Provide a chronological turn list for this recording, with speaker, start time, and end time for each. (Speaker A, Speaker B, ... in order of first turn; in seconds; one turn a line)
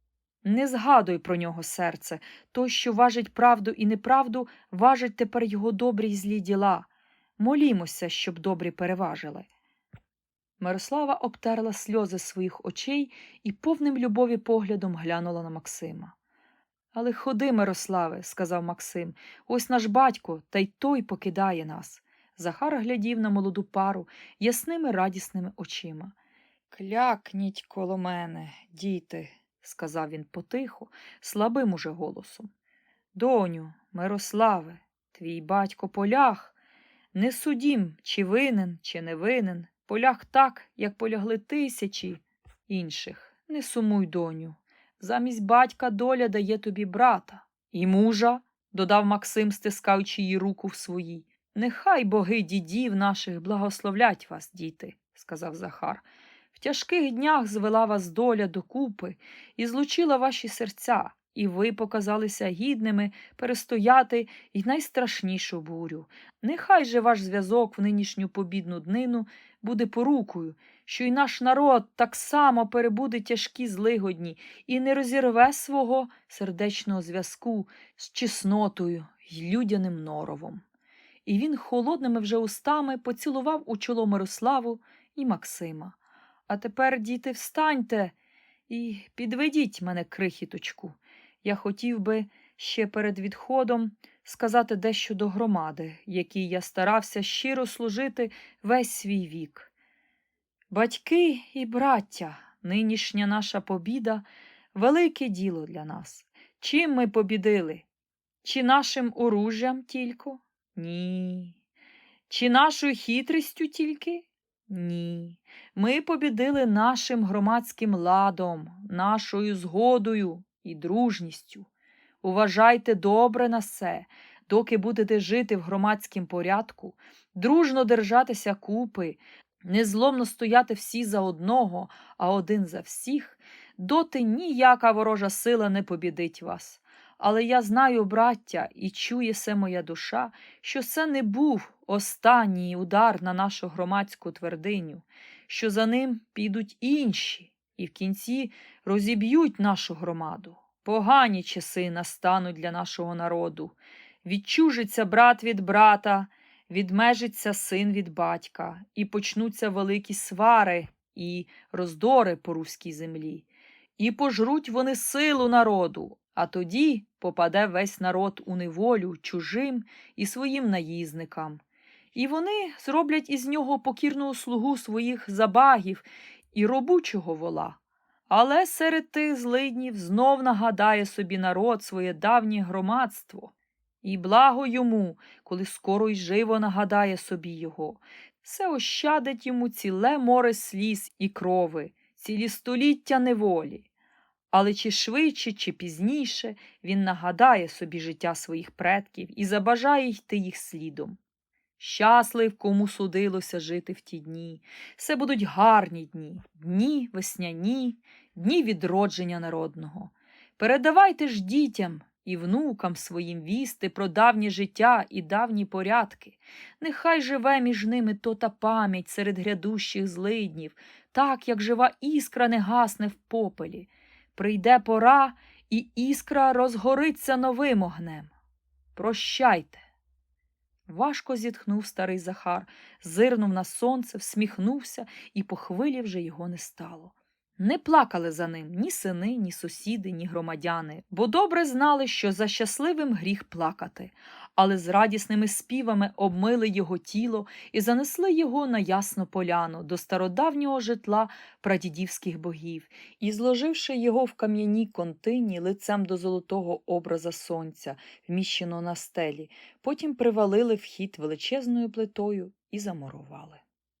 Speaker A: 0.4-6.9
Speaker A: 7.4-9.5
Speaker A: 10.6-16.1
Speaker A: 16.9-26.1
Speaker A: 26.7-32.5
Speaker A: 33.1-36.5
Speaker A: 37.1-80.6
Speaker A: 81.2-86.0
Speaker A: 86.5-88.1
Speaker A: 88.7-99.7
Speaker A: 100.7-107.8
Speaker A: 108.4-111.5
Speaker A: 112.3-121.7
Speaker A: 122.2-163.4
Speaker A: 164.0-171.6
Speaker A: 172.1-177.8
Speaker A: 178.3-193.9
Speaker A: 194.5-201.2
Speaker A: 201.8-228.3
Speaker A: 228.9-229.8
Speaker A: 230.9-263.6